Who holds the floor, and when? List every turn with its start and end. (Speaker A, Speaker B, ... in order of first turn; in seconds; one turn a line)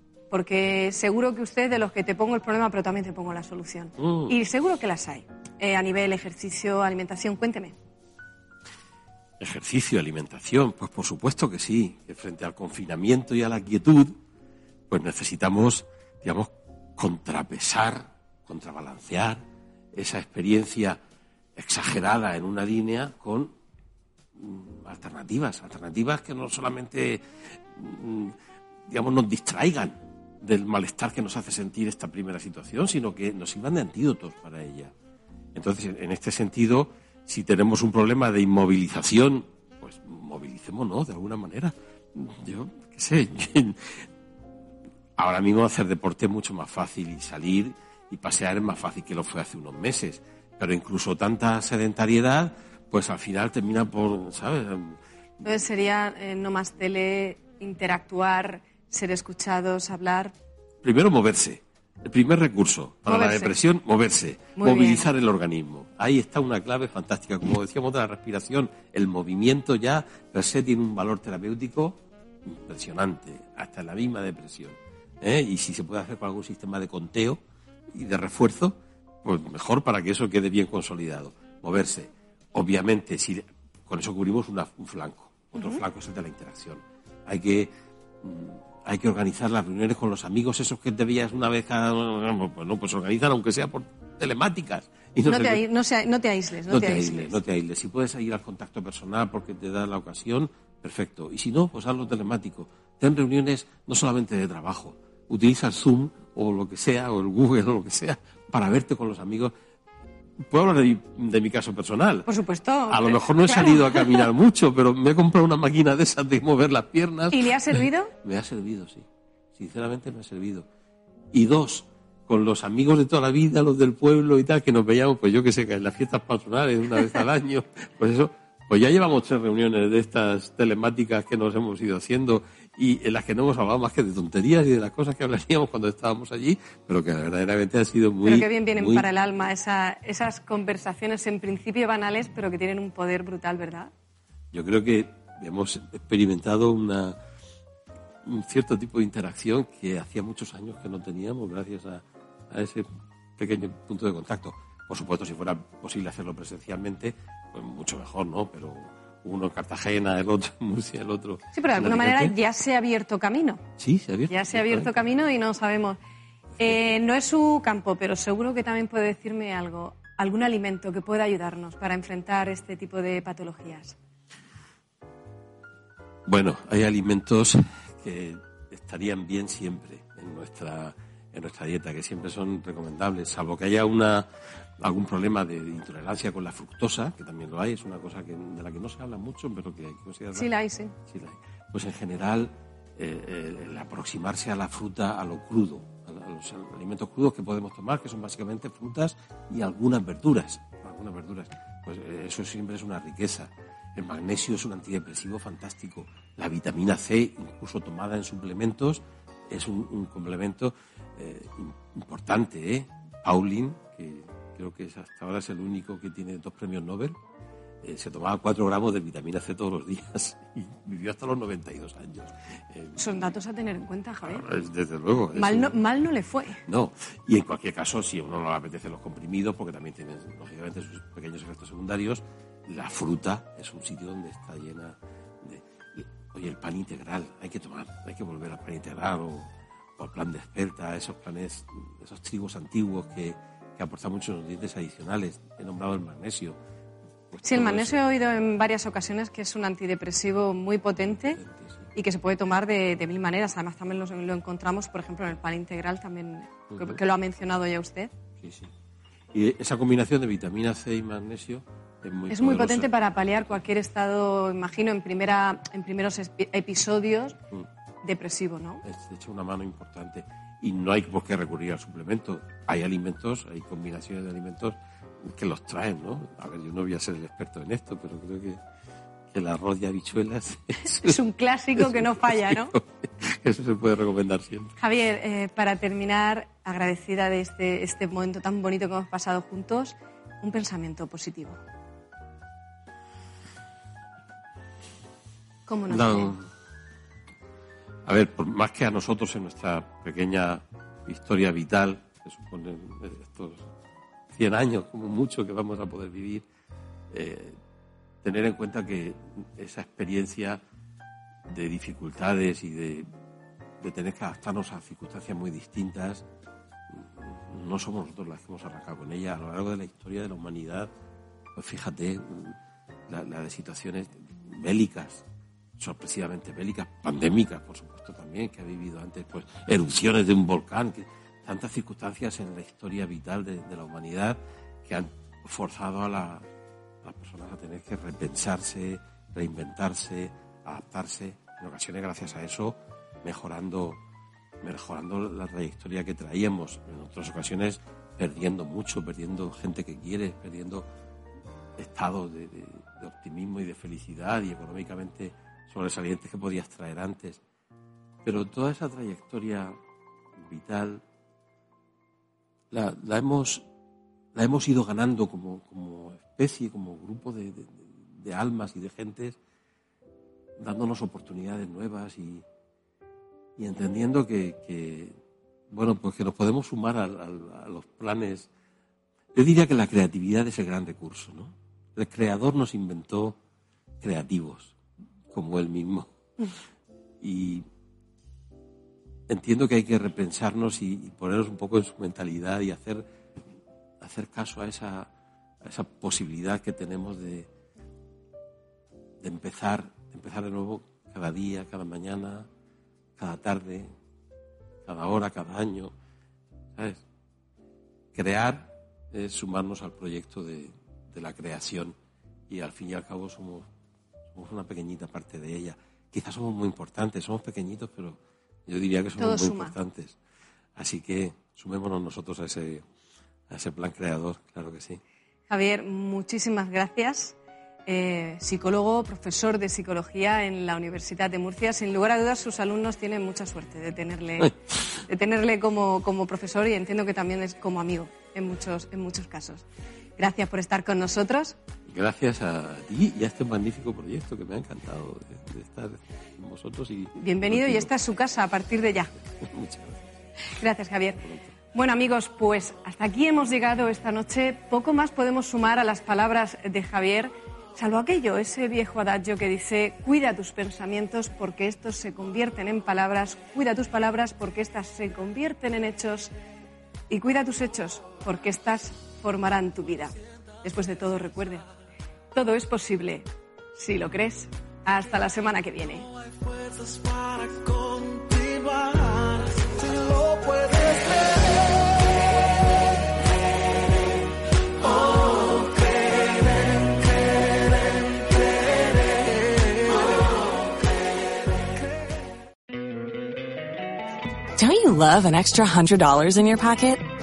Speaker A: 0.3-7.7
Speaker B: 4.0-4.3
Speaker B: 9.4-14.1
Speaker B: 14.9-21.0
Speaker B: 21.6-23.5
Speaker B: 24.4-28.3
Speaker B: 28.9-34.9
Speaker B: 35.5-44.0
Speaker B: 45.2-55.0
Speaker A: 55.4-60.3
Speaker B: 60.8-95.6
Speaker A: 63.1-63.5
Speaker A: 64.6-65.1
Speaker A: 85.5-85.8
Speaker A: 95.2-97.4
Speaker B: 96.7-109.5
Speaker B: 110.4-112.3
Speaker A: 112.3-114.3
Speaker B: 112.9-120.7
Speaker A: 117.3-118.1
Speaker B: 121.3-139.1
Speaker A: 138.2-143.9
Speaker B: 144.5-147.2
Speaker B: 148.2-162.3
Speaker A: 161.5-163.6
Speaker B: 163.8-164.9
Speaker A: 164.3-166.0
Speaker A: 166.6-173.9
Speaker B: 176.2-190.5
Speaker A: 190.3-190.9
Speaker B: 191.1-217.2
Speaker B: 217.8-223.0
Speaker A: 223.0-224.4
Speaker B: 224.2-225.8
Speaker A: 225.3-226.6
Speaker B: 226.7-246.6
Speaker B: 247.3-248.0
Speaker A: 247.4-251.4
Speaker B: 251.3-251.8
Speaker A: 251.9-258.1
Speaker B: 256.7-257.0
Speaker B: 258.4-258.7
Speaker B: 259.3-262.9
Speaker A: 262.3-267.4
Speaker A: 268.0-268.8
Speaker B: 268.8-278.6
Speaker B: 279.3-281.2
Speaker A: 280.9-282.7
Speaker B: 281.8-284.7
Speaker A: 284.8-291.6
Speaker A: 295.7-296.3
Speaker B: 295.9-296.5
Speaker B: 298.0-303.6
Speaker B: 304.3-306.4
Speaker B: 307.1-307.6
Speaker B: 308.2-310.6
Speaker B: 311.5-313.1
Speaker B: 313.8-316.2
Speaker B: 316.9-320.9
Speaker B: 321.5-322.6
Speaker B: 323.1-325.2
Speaker B: 325.8-336.5
Speaker B: 337.0-344.0
Speaker B: 344.6-350.9
Speaker B: 351.8-357.4
Speaker B: 358.2-359.8
Speaker B: 360.4-361.0
Speaker B: 362.7-363.6
Speaker B: 364.3-369.4
Speaker B: 370.6-372.4
Speaker B: 373.6-375.1
Speaker B: 375.7-378.5
Speaker B: 379.3-383.4
Speaker B: 384.0-384.7
Speaker B: 385.3-386.1
Speaker B: 387.2-387.6
Speaker B: 389.3-393.1
Speaker B: 394.0-395.1
Speaker B: 395.6-397.5
Speaker B: 399.2-402.5
Speaker B: 403.2-403.9
Speaker B: 404.8-405.9
Speaker B: 406.8-407.0
Speaker B: 408.1-411.9
Speaker B: 412.5-413.7
Speaker B: 414.3-420.2
Speaker A: 419.2-419.8
Speaker B: 420.8-422.8
Speaker B: 423.5-425.0
Speaker A: 425.5-434.5
Speaker A: 435.0-439.6
Speaker A: 440.2-441.6
Speaker B: 441.9-447.9
Speaker A: 447.1-449.1
Speaker B: 449.2-450.0
Speaker A: 450.5-466.3
Speaker A: 467.1-471.6
Speaker A: 472.3-476.1
Speaker C: 494.6-497.1